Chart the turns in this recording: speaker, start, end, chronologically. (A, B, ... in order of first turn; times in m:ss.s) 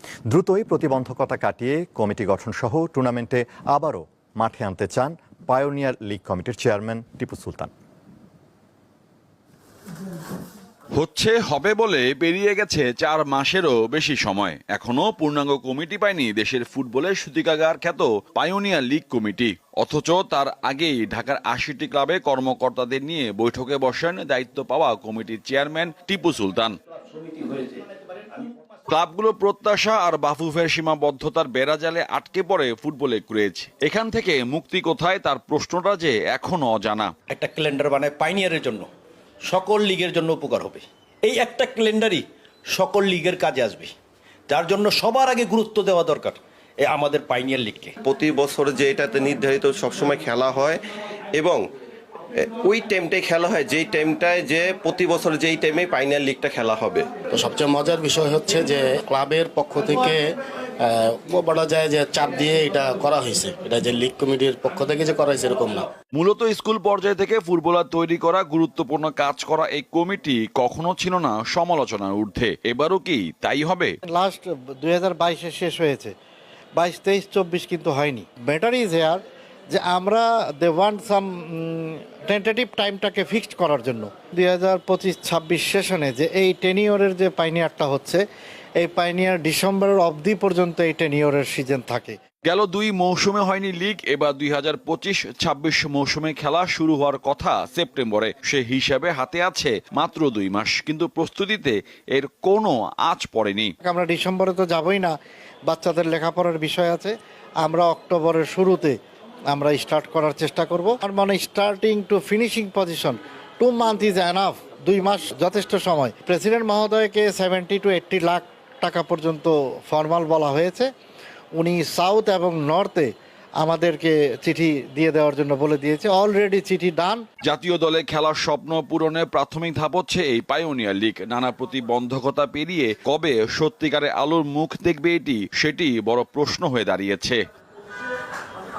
0:00.3-0:07.7 A
0:10.9-0:26.8 B
0:27.3-0:27.8 C
0:28.9-0:37.1 B
0:37.3-0:38.9 C
0:39.5-0:43.9 C
0:44.5-0:47.9 C
0:48.0-0:50.8 D
0:51.3-0:51.6 D
0:52.4-0:57.1 D
0:57.3-1:00.2 E
1:00.8-1:05.9 E
1:06.1-1:14.0 B
1:14.1-1:16.1 F
1:16.8-1:28.2 F
1:28.8-1:32.2 F
1:32.4-1:43.7 B
1:43.8-1:45.2 F
1:45.7-1:49.0 F
1:49.5-2:00.9 F
2:01.6-2:07.2 F
2:07.4-2:17.4 B